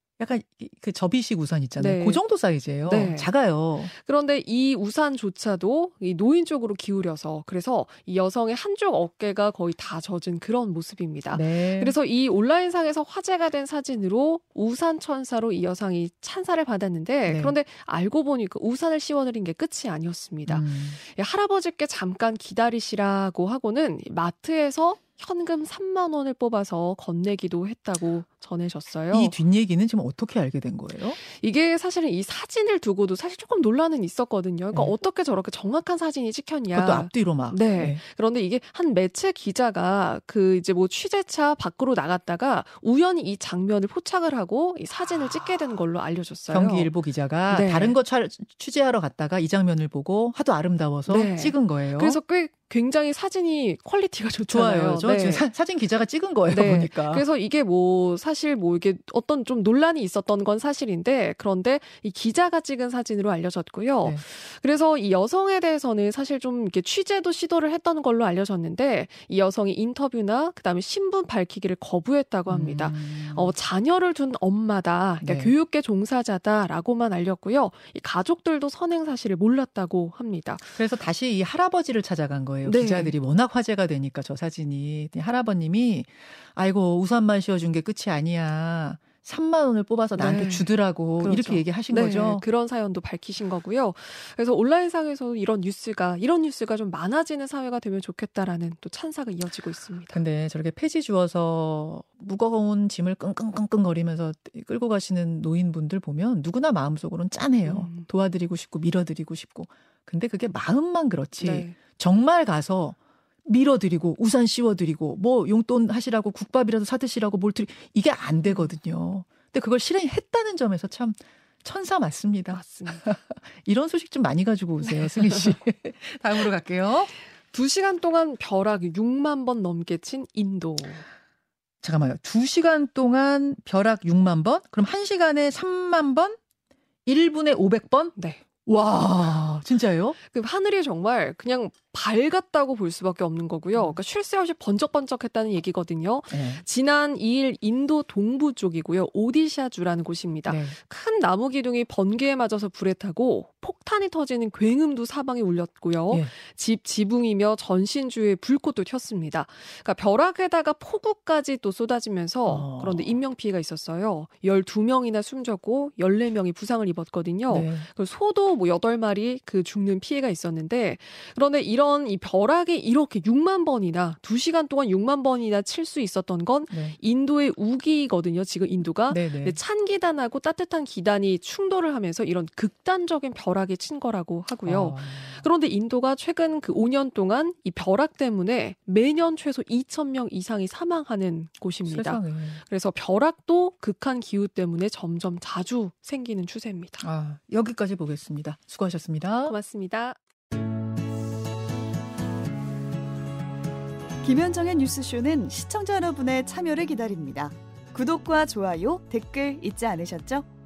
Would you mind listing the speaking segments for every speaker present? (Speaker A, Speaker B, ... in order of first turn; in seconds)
Speaker A: 0.2-3.9, 11.3-11.9, 17.2-17.6, 20.5-21.0, 29.1-31.2, 36.7-38.0, 46.5-52.2, 54.5-57.3, 72.5-73.5, 75.2-75.5, 80.7-92.5, 100.1-127.1, 131.8-136.4, 137.1-138.2, 138.7-140.2, 143.7-144.0, 146.3-146.6, 150.5-150.7, 162.5-163.2, 167.5-167.8, 176.7-177.0, 179.1-179.6, 184.7-185.5, 191.8-192.6, 197.0-199.6
Speaker B: 1.8-2.2, 2.8-3.3, 3.9-29.4, 31.2-46.9, 47.5-48.0, 51.1-55.5, 56.5-80.7, 82.6-83.2, 90.2-100.2, 107.7-108.1, 111.4-111.8, 122.5-123.0, 125.0-125.5, 127.5-131.0, 138.2-138.4, 140.2-197.1, 199.5-200.2
Speaker C: 204.2-210.5